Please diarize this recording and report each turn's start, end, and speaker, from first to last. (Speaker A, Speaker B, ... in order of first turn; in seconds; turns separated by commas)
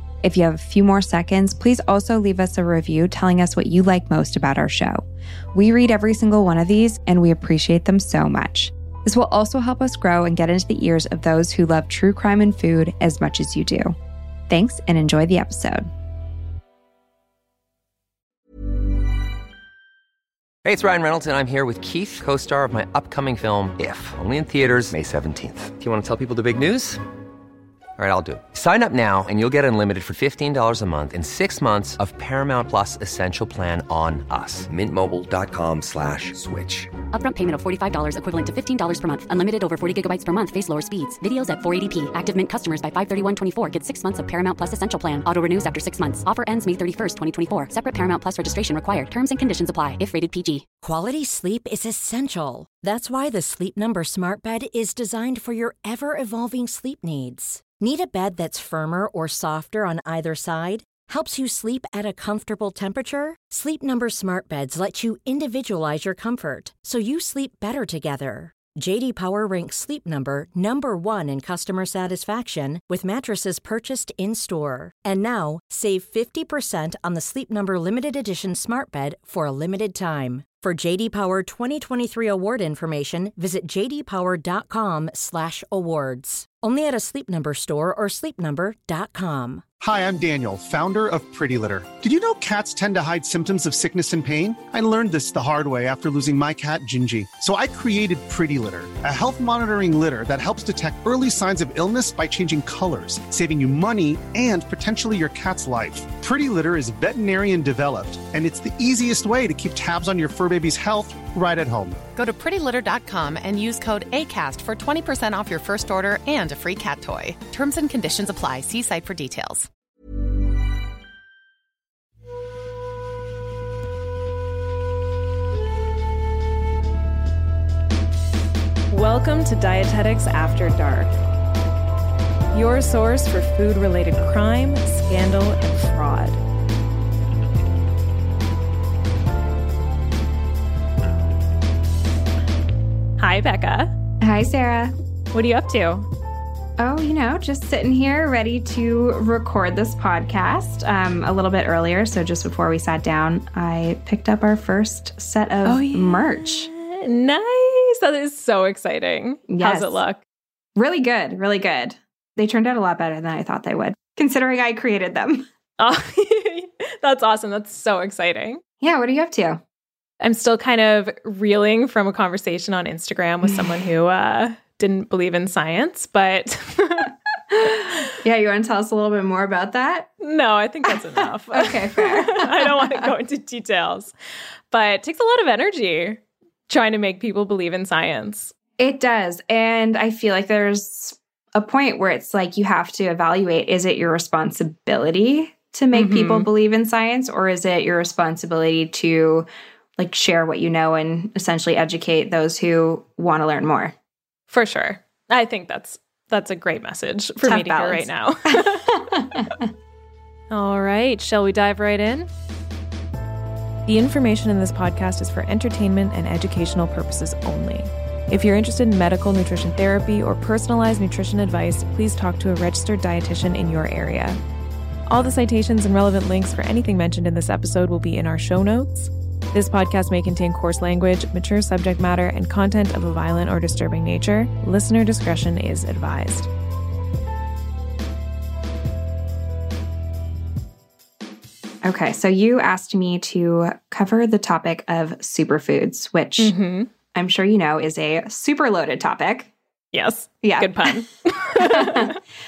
Speaker A: 0.2-5.0, Speaker A: 5.5-13.9, Speaker A: 14.5-15.9, Speaker B: 20.6-27.0, Speaker B: 28.0-36.9, Speaker C: 37.1-50.7, Speaker D: 50.8-89.6, Speaker E: 89.8-112.0, Speaker F: 112.2-119.7, Speaker G: 128.9-131.1, Speaker G: 132.5-136.4, Speaker G: 143.2-143.9, Speaker A: 144.2-144.9, Speaker G: 145.3-146.1, Speaker A: 146.8-156.7, Speaker G: 155.7-160.2, Speaker A: 159.5-160.0, Speaker A: 160.8-165.5, Speaker G: 165.8-168.6, Speaker A: 168.8-169.6, Speaker G: 170.2-177.1, Speaker A: 173.4-173.8, Speaker A: 177.5-180.1, Speaker G: 180.2-184.1, Speaker A: 181.5-183.1, Speaker G: 184.7-188.5, Speaker A: 188.8-203.9, Speaker G: 195.9-196.5, Speaker G: 204.5-209.0, Speaker A: 207.4-209.7, Speaker G: 210.5-212.3, Speaker G: 213.9-224.4, Speaker G: 225.1-236.5, Speaker A: 241.8-246.5, Speaker G: 246.4-246.9, Speaker A: 247.1-249.5, Speaker G: 249.9-252.2, Speaker A: 250.4-251.0, Speaker A: 251.6-252.2